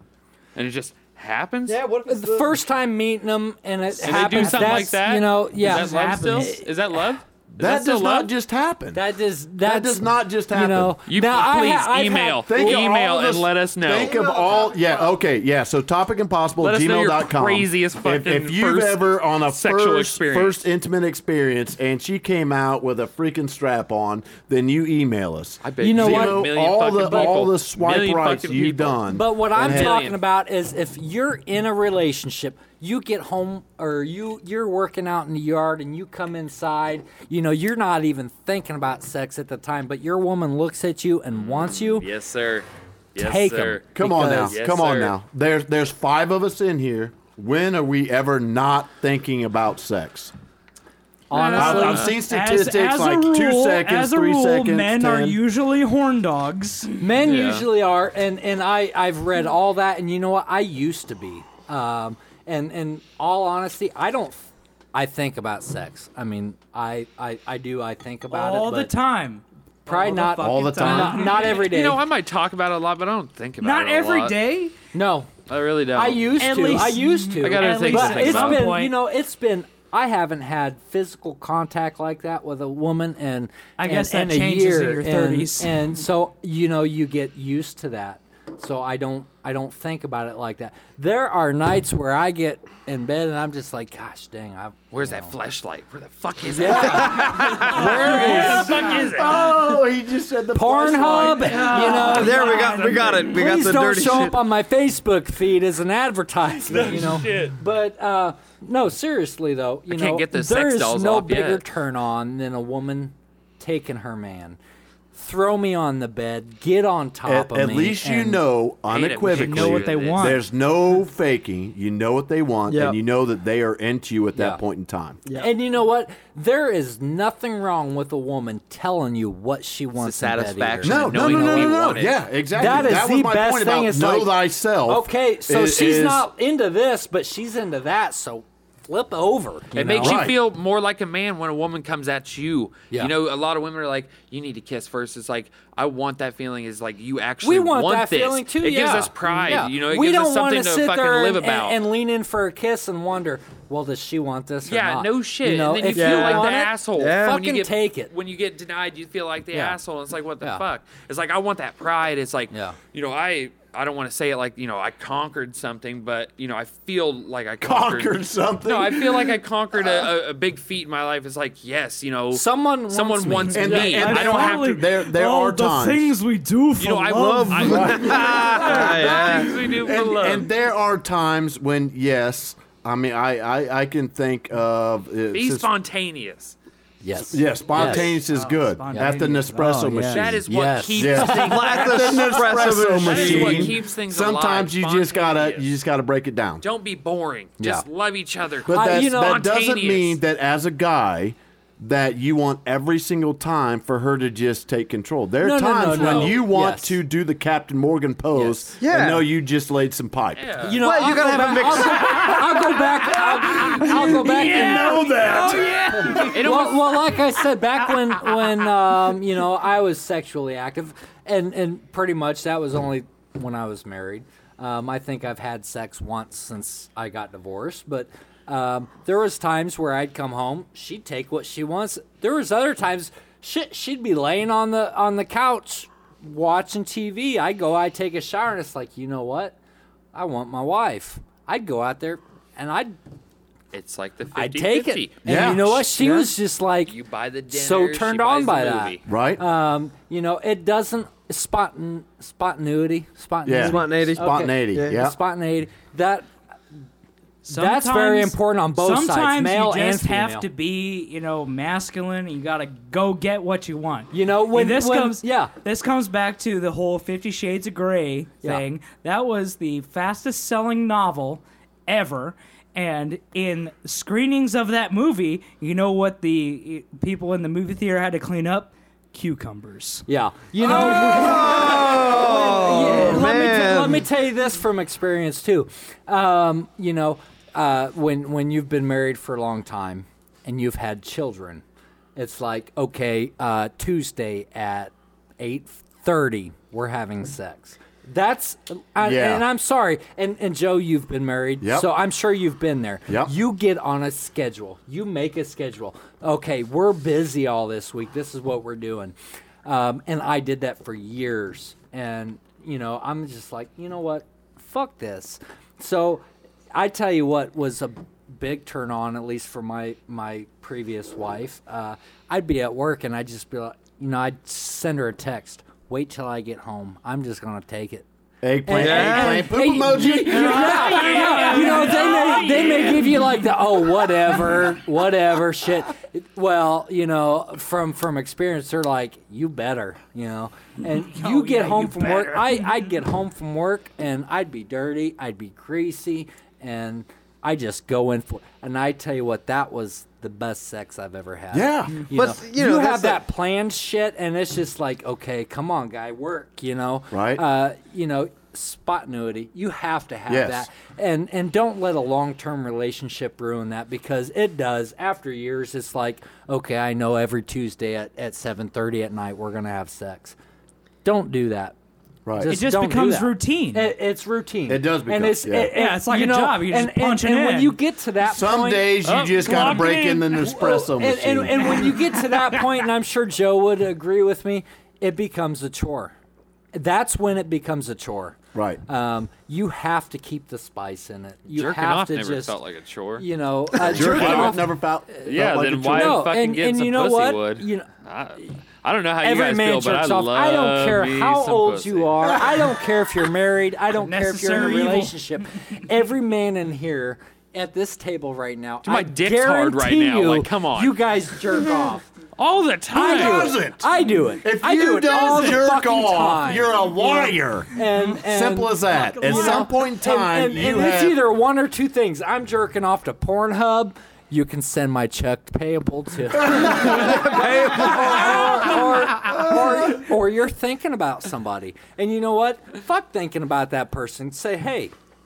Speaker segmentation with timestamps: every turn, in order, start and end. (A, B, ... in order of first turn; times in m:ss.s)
0:00.6-0:01.8 A
0:01.7-0:02.6 B
0:02.1-0:06.7 C
0:04.0-0:08.3 A
0:04.3-0:04.7 D
0:05.6-0:06.5 D
0:07.5-0:09.0 E
0:08.9-0:12.8 C
0:09.6-0:11.0 E
0:11.1-0:14.2 A
0:12.4-0:30.0 E
0:14.0-0:15.1 B
0:16.6-0:20.6 A
0:25.6-0:29.0 A
0:25.8-0:27.4 C
0:29.1-0:42.1 C
0:29.6-0:30.2 A
0:41.4-0:45.2 A
0:43.2-0:44.6 C
0:43.9-0:50.3 E
0:51.3-0:52.1 C
0:51.3-0:52.2 A
0:51.4-0:57.0 D
0:51.6-0:55.4 E
0:57.0-1:08.9 C
0:57.2-0:57.6 A
1:08.3-1:11.6 D
1:09.9-1:12.0 C
1:10.4-1:11.4 E
1:11.3-1:14.4 A
1:13.6-1:14.7 D
1:14.9-1:15.3 C
1:15.5-1:16.3 A
1:15.9-1:35.3 C
1:16.4-1:18.9 D
1:17.4-1:18.6 A
1:23.8-1:25.9 D
1:34.9-1:39.6 A
1:36.5-1:38.9 C
1:37.1-1:37.7 B
1:37.7-1:38.9 D
1:38.0-1:41.7 E
1:40.5-1:42.7 C
1:41.3-1:43.4 D
1:41.7-1:43.3 A
1:41.9-1:44.4 B
1:43.2-1:54.6 C
1:46.7-1:47.6 A
1:49.9-1:51.6 A
1:55.1-1:58.4 C
1:57.2-2:05.2 E
1:58.9-2:00.4 A
1:59.3-2:00.4 D
2:02.7-2:03.0 B
2:04.4-2:04.6 C
2:05.3-2:12.0 C
2:10.0-2:12.2 A
2:10.8-2:16.3 E
2:12.6-2:14.3 C
2:14.9-2:20.2 C
2:19.7-2:31.8 A
2:20.0-2:20.4 E
2:27.4-2:38.1 C
2:34.6-2:54.8 A
2:35.9-2:37.4 B
2:39.5-2:39.8 C
2:42.5-2:42.8 C
2:47.6-2:50.1 E
2:52.3-2:54.1 C
2:53.6-2:56.1 E
2:53.6-2:59.0 D
2:56.8-3:00.5 A
2:57.1-2:59.6 B
2:57.7-3:05.7 E
3:05.3-3:06.6 A
3:07.0-3:08.1 C
3:07.3-3:10.4 E
3:07.8-3:10.4 D
3:08.9-3:09.3 C
3:10.1-3:15.7 A
3:10.4-3:11.7 C
3:11.0-3:16.6 E
3:11.3-3:13.8 B
3:16.6-3:20.2 A
3:17.6-3:17.8 C
3:18.6-3:30.6 E
3:18.7-3:19.4 C
3:25.4-3:27.0 C
3:25.9-3:26.4 A
3:28.4-3:28.6 A
3:28.8-3:29.3 B
3:30.4-3:30.8 A
3:30.6-3:35.1 C
3:30.8-3:32.4 B
3:33.7-3:36.2 E
3:33.9-3:36.2 D
3:35.2-3:37.0 A
3:35.9-3:59.6 C
4:00.1-4:03.0 C
4:03.7-4:06.2 A
4:04.3-4:07.0 C
4:05.2-4:05.9 E
4:06.9-4:09.0 A
4:07.5-4:16.3 C
4:09.1-4:09.4 E
4:13.4-4:15.2 E
4:13.6-4:15.0 B
4:17.4-4:40.1 D
4:17.5-4:20.5 C
4:24.1-4:25.5 C
4:40.1-4:51.6 C
4:40.6-4:44.0 B
4:52.2-5:28.1 C
4:59.0-4:59.4 E
5:01.6-5:01.9 E
5:03.1-5:03.3 E
5:28.4-5:31.0 E
5:28.6-6:10.4 C
5:28.7-5:29.5 B
5:30.2-5:33.3 D
5:41.0-5:42.7 D
5:51.5-5:52.0 E
5:52.1-5:53.2 B
5:57.1-5:57.4 E
6:00.3-6:00.7 E
6:11.0-6:11.8 C
6:12.3-6:12.6 E
6:12.4-6:18.9 C
6:12.4-6:13.9 D
6:14.7-6:15.7 E
6:15.7-6:17.8 D
6:18.2-6:21.8 E
6:19.0-6:20.2 A
6:19.4-6:20.1 D
6:19.5-6:26.2 C
6:21.8-6:22.6 D
6:26.7-6:32.6 C
6:28.5-6:28.8 E
6:31.5-6:34.6 A
6:33.2-6:34.7 C
6:33.8-6:36.2 E
6:35.2-6:42.5 A
6:35.9-6:37.9 C
6:39.2-6:52.1 C
6:43.9-6:45.2 D
6:48.8-6:51.0 A
6:52.4-6:53.5 A
6:52.9-7:14.9 C
6:52.9-7:01.2 E
6:58.9-6:59.6 D
7:09.3-7:09.6 E